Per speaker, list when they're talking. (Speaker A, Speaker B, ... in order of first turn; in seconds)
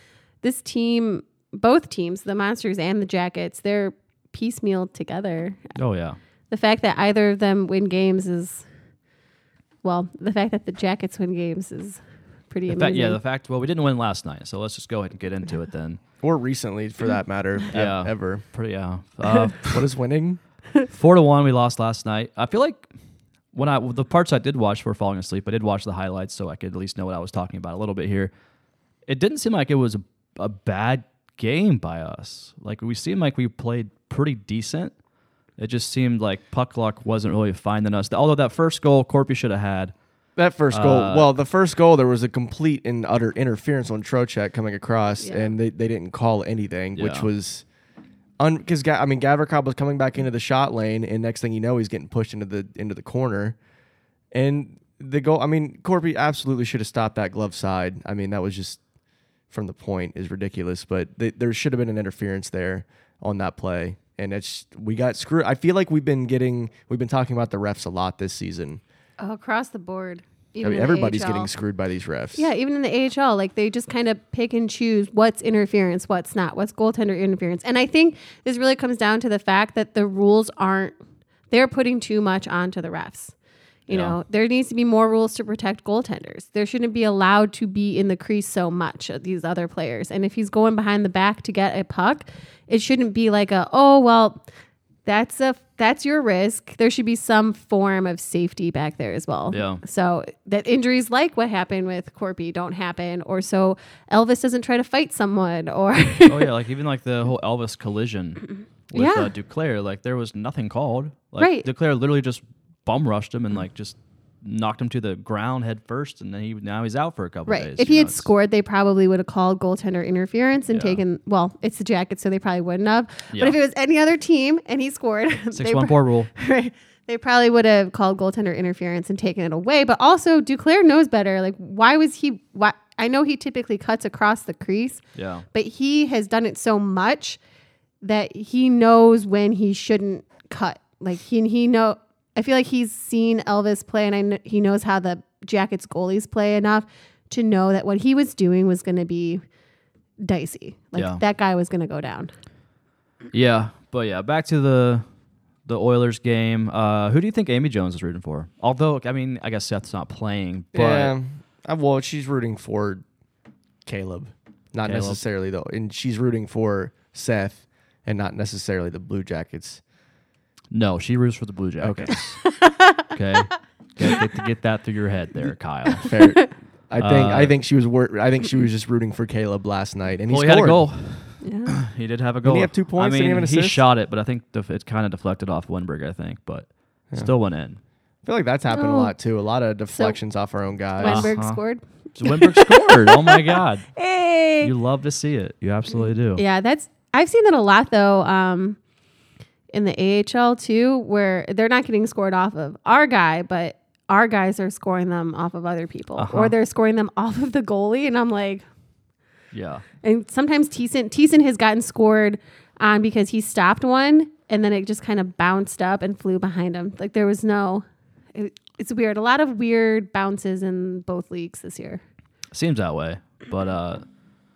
Speaker A: 0.4-5.7, 6.5-8.7, 9.8-13.2, 45.2-45.5, 69.2-71.5, 72.3-81.0, 81.5-83.3, 83.9-94.4, 95.0-106.5, 108.9-109.3, 111.4-111.7, 117.5-137.4, 138.0-149.4, 150.2-152.3, 172.4-173.1, 181.4-181.8, 188.7-189.1, 191.0-194.7, 196.3-198.8, 199.7-208.6, 210.0-222.0
Speaker B: 5.8-6.2, 12.7-16.0, 17.7-19.8, 20.9-22.9, 23.5-28.3, 29.1-34.9, 35.6-39.9, 40.7-41.3, 47.0-47.3, 83.9-84.2, 99.5-99.8, 106.2-118.3, 120.7-121.0, 123.3-123.6, 125.5-126.3, 135.2-135.4, 150.9-151.2, 153.3-155.0, 155.7-161.1, 164.8-165.2, 170.7-172.5, 173.0-176.1, 177.0-177.5, 180.3-187.8, 191.0-191.6, 192.2-193.9, 194.6-196.4, 206.2-206.5, 209.5-209.8, 222.5-224.0
Speaker C: 16.2-18.4, 19.6-20.4, 40.4-47.6, 48.4-53.6, 54.3-58.8, 59.5-68.8, 70.6-72.5, 160.7-163.0, 163.8-169.8, 171.8-172.2, 176.0-180.8, 182.4-183.8, 188.2-191.3